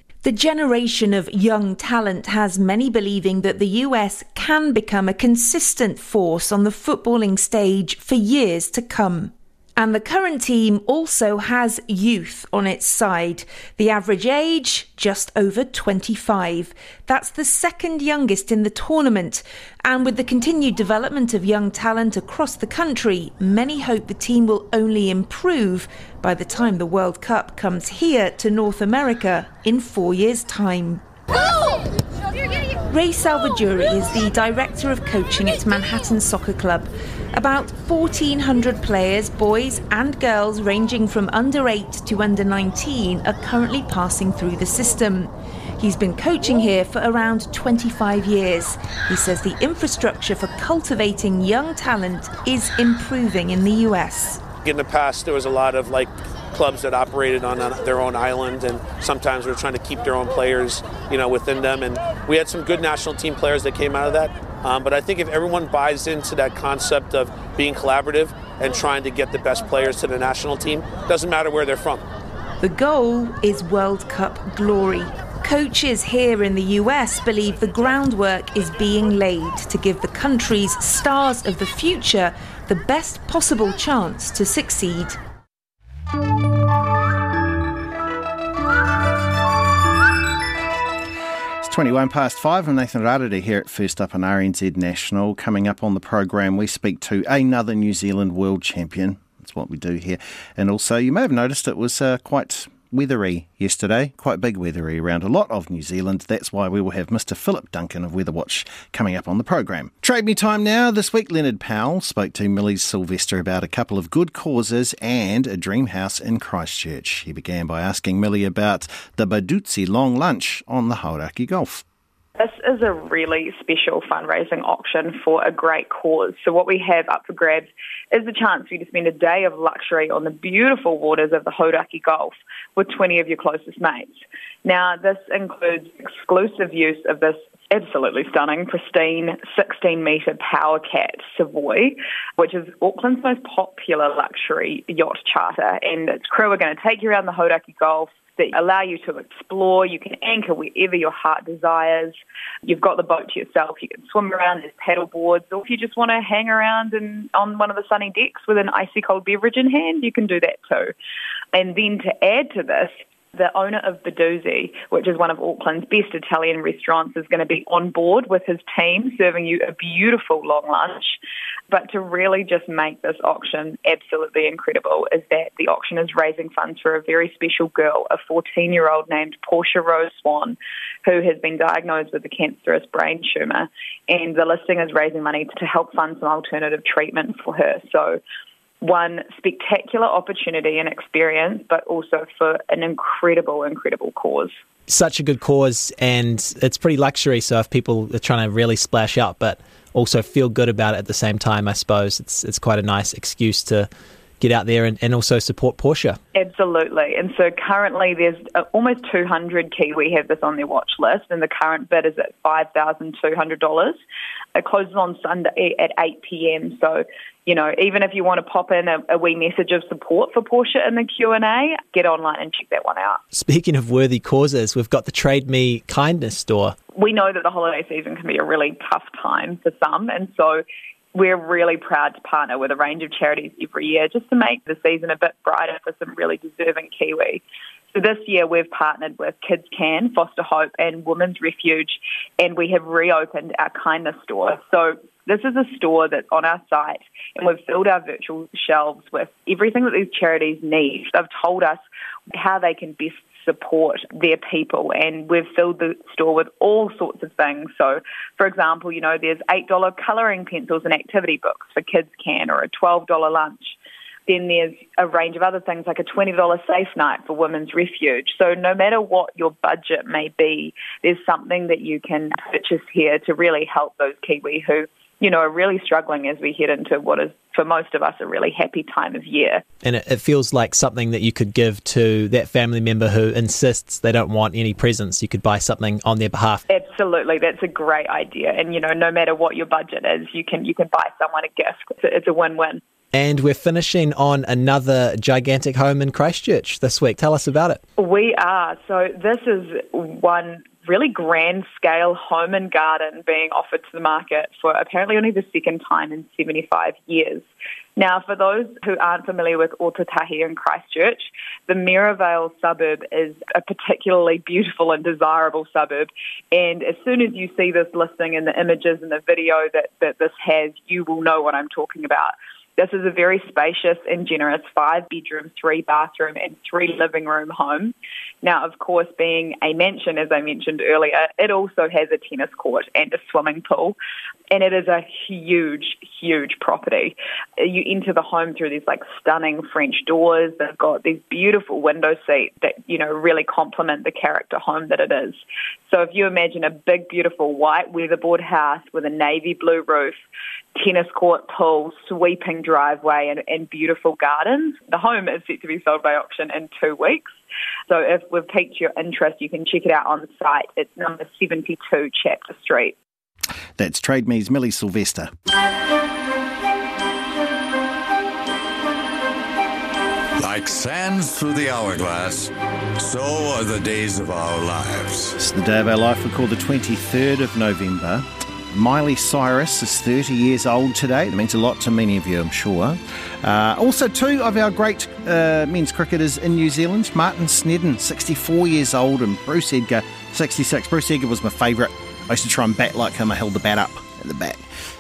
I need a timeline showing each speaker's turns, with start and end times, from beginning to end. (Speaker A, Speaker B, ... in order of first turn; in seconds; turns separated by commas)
Speaker A: 0.2-31.0, Speaker A: 32.9-54.4, Speaker B: 54.6-72.0, Speaker A: 72.6-85.2, Speaker C: 91.6-121.8, Speaker D: 122.4-160.9, Speaker D: 161.5-171.2, Speaker D: 171.7-188.2, Speaker D: 188.8-194.5, Speaker E: 194.9-203.9, Speaker E: 204.4-206.2, Speaker D: 206.3-214.0, Speaker D: 214.6-223.2, Speaker E: 223.3-226.8, Speaker D: 226.9-237.4, Speaker D: 237.9-263.8, Speaker D: 264.3-279.6, Speaker E: 279.8-286.6, Speaker D: 286.7-292.8, Speaker E: 293.1-297.8, Speaker D: 298.0-307.4, Speaker D: 308.0-334.0, Speaker D: 334.5-350.2, Speaker D: 350.8-357.3, Speaker D: 357.9-363.0, Speaker C: 363.8-365.3, Speaker F: 370.4-375.3, Speaker C: 375.4-394.6